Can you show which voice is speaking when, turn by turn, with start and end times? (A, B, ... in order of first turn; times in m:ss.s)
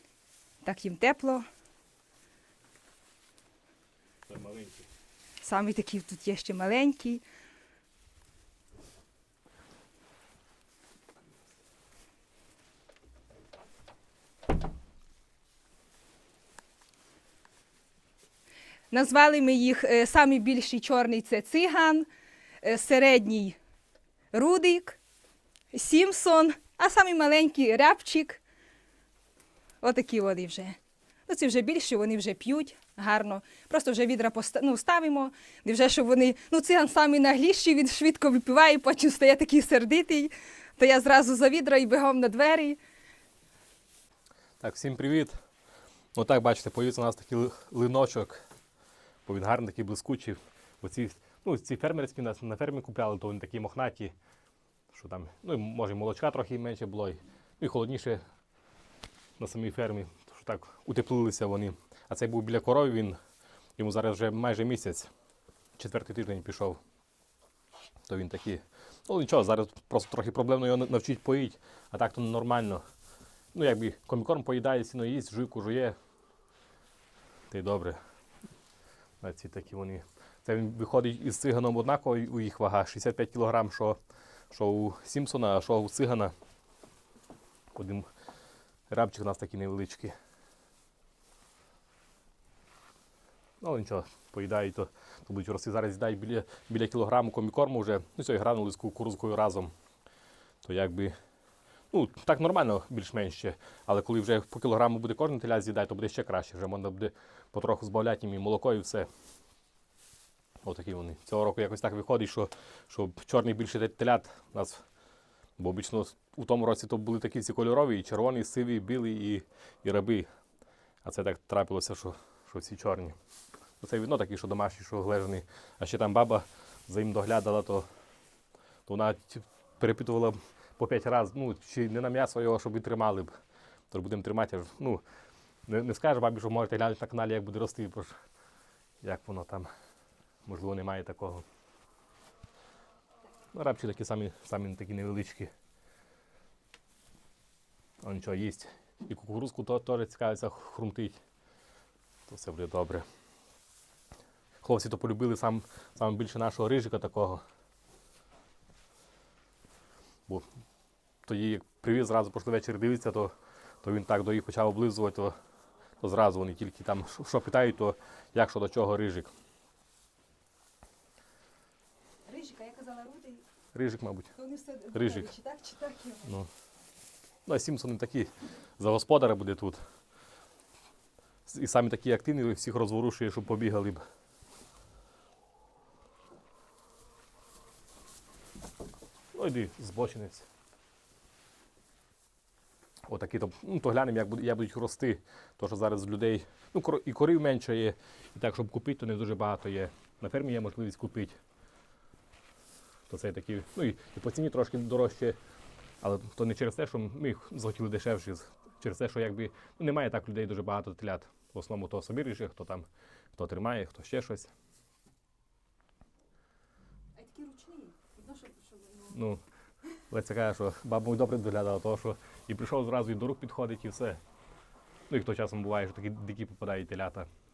0:00.6-0:01.4 A
0:04.3-0:04.9 B
0:05.4-0:07.2 A
0:18.9-0:22.1 A
0:22.6-0:23.6 A
0:24.3-0:25.0 A
0:25.7-0:28.4 A
0:29.8-0:42.8 A
0:44.6-0:45.4 B
0:46.2-0:48.4 B
0:49.3-0:54.1 B
0:54.9-0:58.2 B
0:59.4-1:03.2 B
1:03.8-1:05.1 B
1:05.8-1:06.8 B
1:08.1-1:12.8 B
1:13.5-1:16.0 B
1:17.5-1:18.0 B
1:19.2-1:24.0 B
1:24.5-1:26.3 B
1:27.8-1:28.1 B
1:28.9-1:30.2 B
1:33.6-1:39.7 B
1:40.6-1:41.2 B
1:41.9-1:49.1 B
1:50.6-1:54.8 B
1:55.6-2:00.3 B
2:01.0-2:03.2 B
2:03.8-2:07.9 B
2:08.9-2:13.3 B
2:13.9-2:15.0 B
2:15.7-2:18.1 B
2:19.0-2:19.7 B
2:20.5-2:21.4 B
2:23.5-2:25.5 B
2:28.0-2:31.2 B
2:32.3-2:33.1 B
2:34.6-2:37.4 B
2:41.3-2:43.3 B
2:43.8-2:45.4 B
2:46.0-2:49.3 B
2:52.3-2:53.5 A
2:53.7-2:54.3 B
2:54.4-2:56.3 A
2:54.9-2:55.3 B
2:57.5-2:59.8 B
3:01.5-3:04.0 B
3:09.3-3:10.5 B
3:13.1-3:21.4 B
3:23.1-3:25.4 B
3:26.0-3:34.5 B
3:37.2-3:39.2 A
3:39.1-3:39.4 B
3:40.1-3:44.2 B
3:45.1-3:47.3 B